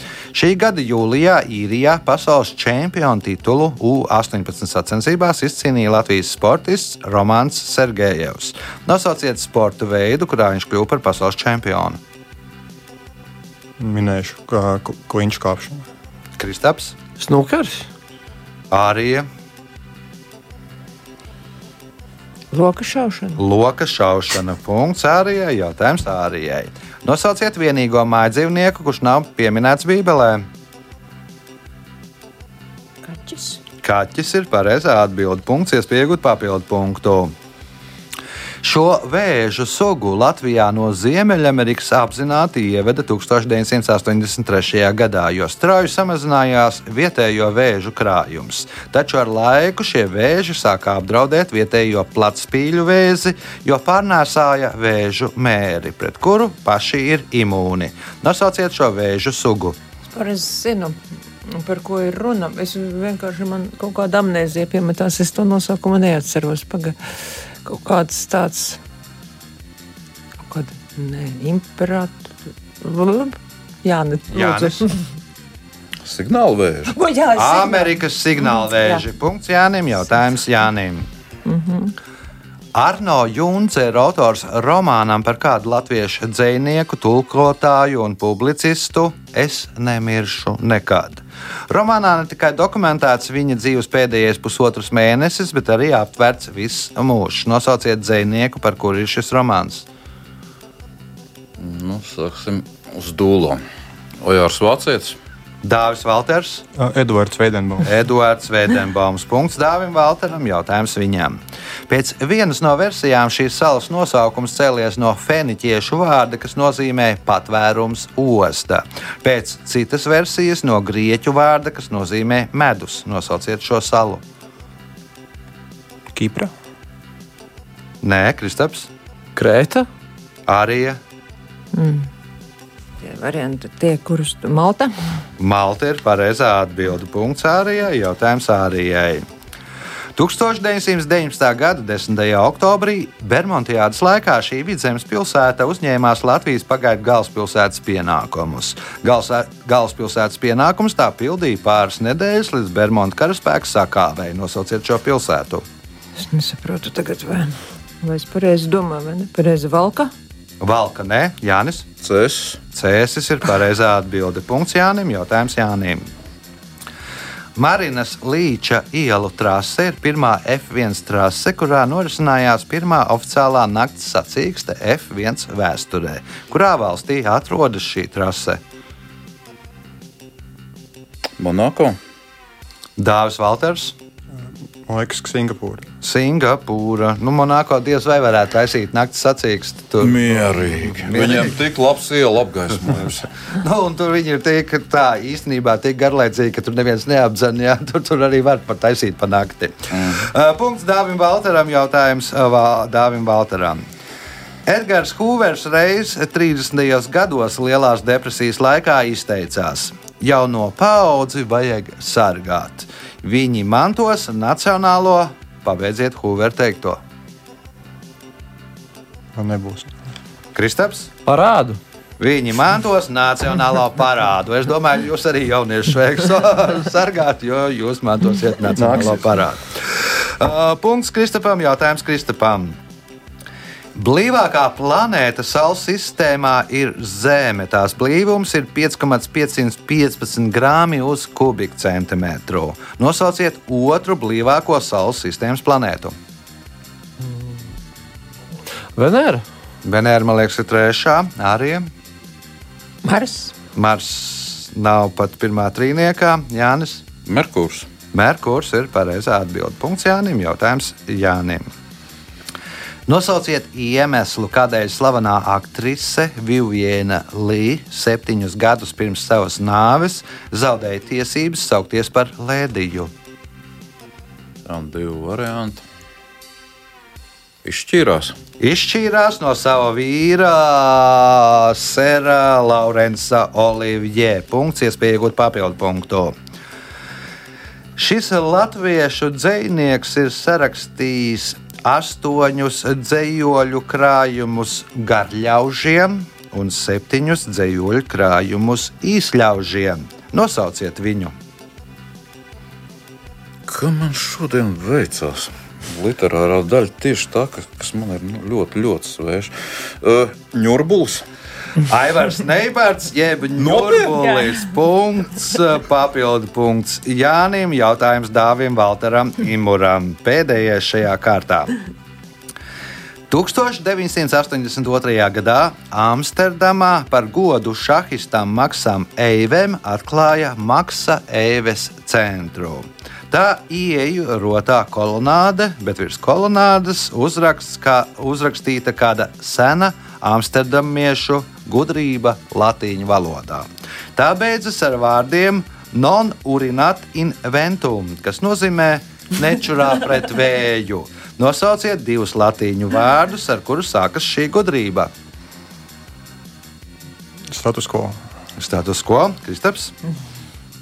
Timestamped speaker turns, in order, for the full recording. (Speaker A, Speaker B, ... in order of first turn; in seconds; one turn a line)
Speaker A: 0.3-12.0
Speaker B: 13.8-15.9
Speaker A: 16.4-17.0
Speaker C: 17.2-17.9
Speaker A: 18.7-19.3
Speaker D: 22.5-23.4
Speaker A: 23.4-30.5
Speaker D: 33.0-33.6
Speaker A: 33.8-37.3
Speaker A: 38.6-59.8
Speaker D: 60.1-68.8
Speaker D: 70.4-75.1
Speaker A: 74.3-74.8
Speaker E: 76.0-77.0
Speaker D: 76.9-79.0
Speaker A: 77.4-81.1
Speaker D: 81.5-82.0
Speaker A: 82.8-99.9
Speaker E: 101.6-103.6
Speaker E: 104.2-105.2
Speaker A: 105.6-106.7
Speaker B: 106.7-107.9
Speaker A: 107.8-124.2
Speaker B: 126.1-126.5
Speaker A: 128.0-128.9
Speaker C: 129.4-129.9
Speaker A: 130.5-131.0
Speaker D: 131.7-132.1
Speaker D: 133.0-134.9
Speaker A: 135.4-139.2
Speaker A: 140.2-155.7
Speaker D: 156.2-160.1
Speaker A: 160.6-161.9
Speaker E: 162.0-162.6
Speaker A: 162.7-166.1
Speaker A: 167.6-178.6
Speaker E: 181.4-182.0
Speaker A: 183.0-183.9
Speaker B: 184.4-185.9
Speaker A: 186.0-191.5
Speaker E: 190.0-193.3
Speaker A: 193.5-203.8
Speaker E: 199.9-200.2
Speaker A: 204.7-217.0
Speaker B: 219.3-220.0
Speaker A: 220.6-221.1
Speaker C: 221.3-221.8
Speaker A: 222.2-232.8
Speaker C: 228.8-229.2
Speaker A: 233.9-246.2
Speaker C: 248.9-249.4
Speaker A: 249.8-251.9
Speaker D: 253.0-253.6
Speaker A: 253.8-257.1
Speaker E: 257.3-257.9
Speaker A: 258.1-261.7
Speaker A: 263.1-273.1
Speaker E: 274.7-275.8
Speaker E: 277.6-278.4
Speaker A: 278.6-286.4
Speaker A: 288.0-301.3
Speaker E: 303.7-311.2
Speaker A: 311.9-321.8
Speaker E: 313.6-314.4
Speaker A: 323.3-355.1
Speaker B: 357.5-358.2
Speaker A: 358.6-359.9